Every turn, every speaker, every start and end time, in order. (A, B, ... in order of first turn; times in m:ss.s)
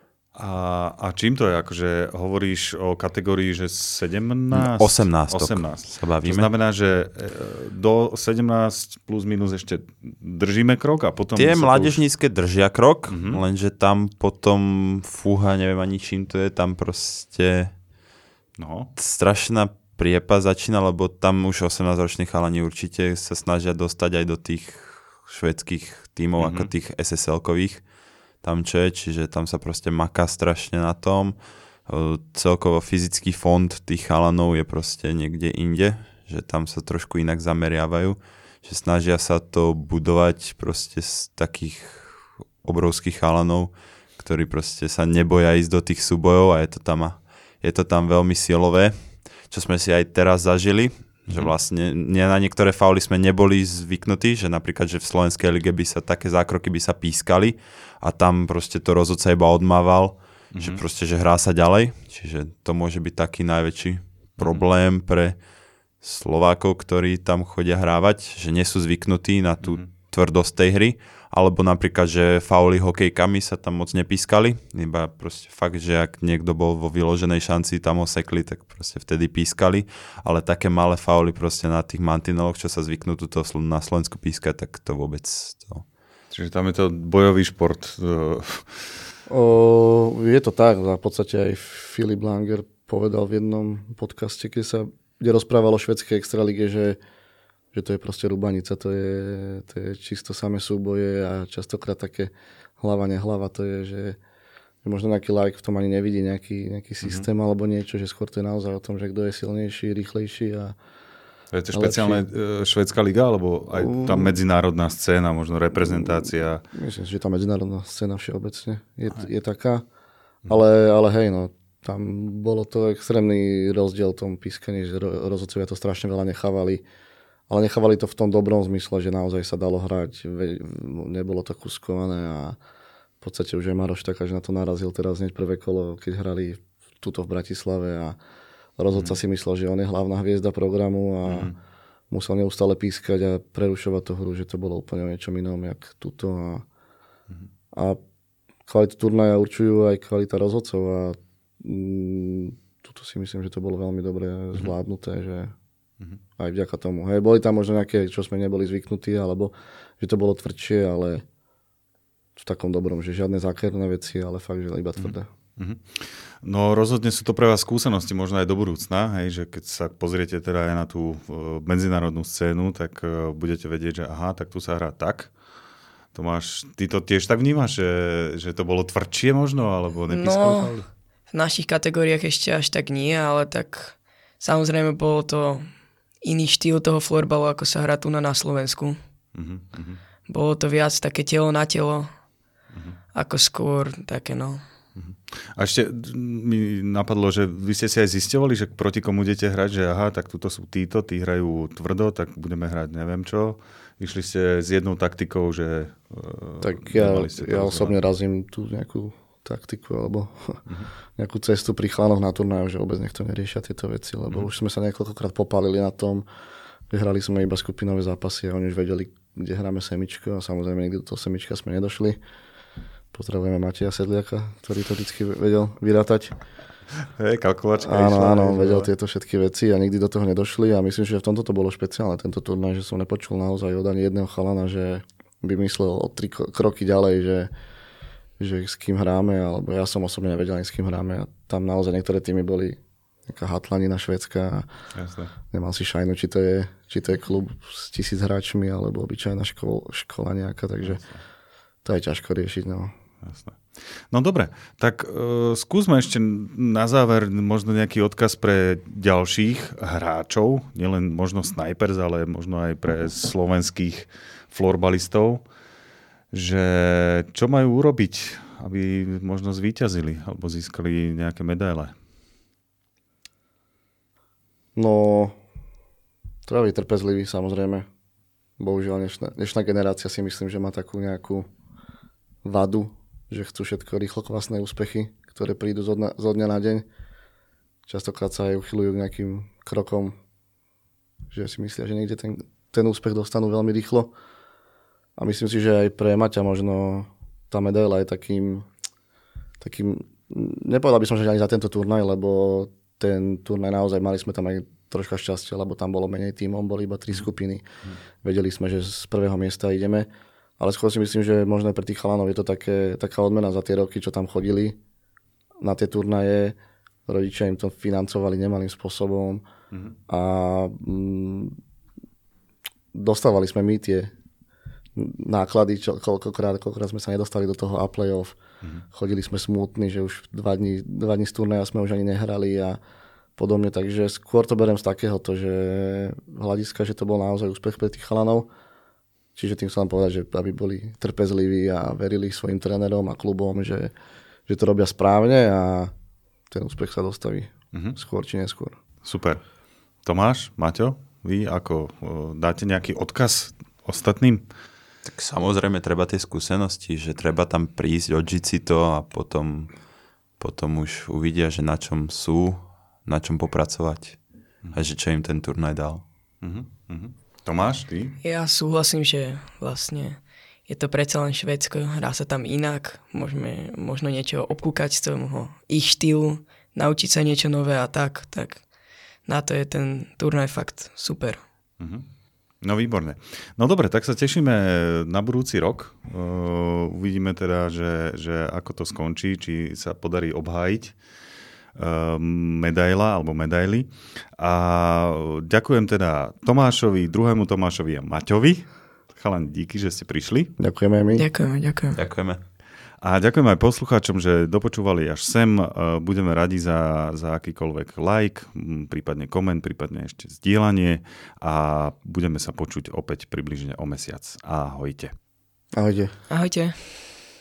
0:00.4-0:12.0 A
0:04.5-0:06.5 B
0:11.4-0:17.7 B
0:13.1-0:13.4 A
0:18.6-0:18.9 A
0:19.0-0:27.8 B
0:26.4-0:26.7 A
0:28.4-1:05.4 B
0:51.3-0:51.5 A
1:00.5-1:00.8 A
1:06.0-1:25.8 B
1:09.6-1:09.9 A
1:26.3-1:29.0 A
1:29.3-1:37.0 C
1:37.7-1:44.2 C
1:44.8-1:50.7 C
1:47.0-1:47.2 A
1:51.5-1:56.6 A
1:51.7-1:52.2 C
1:53.8-1:54.3 C
1:56.7-1:59.8 C
2:00.5-2:06.8 C
2:07.5-2:12.6 C
2:13.2-2:18.2 C
2:18.8-2:21.5 C
2:18.9-2:19.2 A
2:21.2-2:21.5 A
2:22.1-2:26.6 C
2:27.7-2:28.0 C
2:28.7-2:35.5 C
2:36.4-2:41.2 C
2:42.4-2:45.3 C
2:45.0-2:55.4 A
2:56.1-3:00.9 A
3:00.1-3:05.7 D
3:06.2-3:09.0 D
3:09.3-3:10.0 A
3:10.3-3:12.1 D
3:13.1-3:14.6 D
3:15.0-3:28.0 A
3:26.6-3:36.2 C
3:36.9-3:42.2 C
3:43.1-3:46.4 C
3:47.2-3:48.9 A
3:47.8-3:57.5 C
3:58.4-4:04.6 C
4:04.9-4:05.3 A
4:05.5-4:11.0 C
4:10.8-4:11.2 A
4:11.8-4:12.9 C
4:13.2-4:25.4 A
4:26.3-4:31.9 A
4:34.8-4:35.4 C
4:36.5-4:37.9 C
4:38.6-4:41.4 C
4:42.4-4:46.8 C
4:47.9-4:50.1 C
4:51.3-4:54.1 C
4:55.2-4:58.7 C
4:59.6-5:07.6 C
5:08.2-5:10.1 C
5:10.6-5:14.8 C
5:15.6-5:16.6 C
5:17.1-5:19.4 C
5:19.7-5:20.0 A
5:20.1-5:21.5 C
5:22.9-5:24.1 C
5:25.0-5:28.4 C
5:28.9-5:32.8 C
5:33.4-5:38.5 C
5:39.4-5:43.9 C
5:44.5-5:45.9 C
5:46.5-5:48.8 C
5:47.7-5:48.0 A
5:49.0-5:49.4 A
5:50.0-5:54.4 A
5:55.0-5:59.8 B
6:00.4-6:04.2 B
6:04.7-6:06.0 B
6:06.4-6:08.2 A
6:08.2-6:18.7 D
6:19.2-6:21.4 D
6:21.8-6:22.1 A
6:22.6-6:31.0 A
6:31.7-6:40.5 A
6:40.6-6:41.2 C
6:41.1-6:42.0 D
6:41.9-6:42.4 B
6:43.0-6:55.1 A
6:55.7-6:56.1 C
6:56.3-6:57.1 D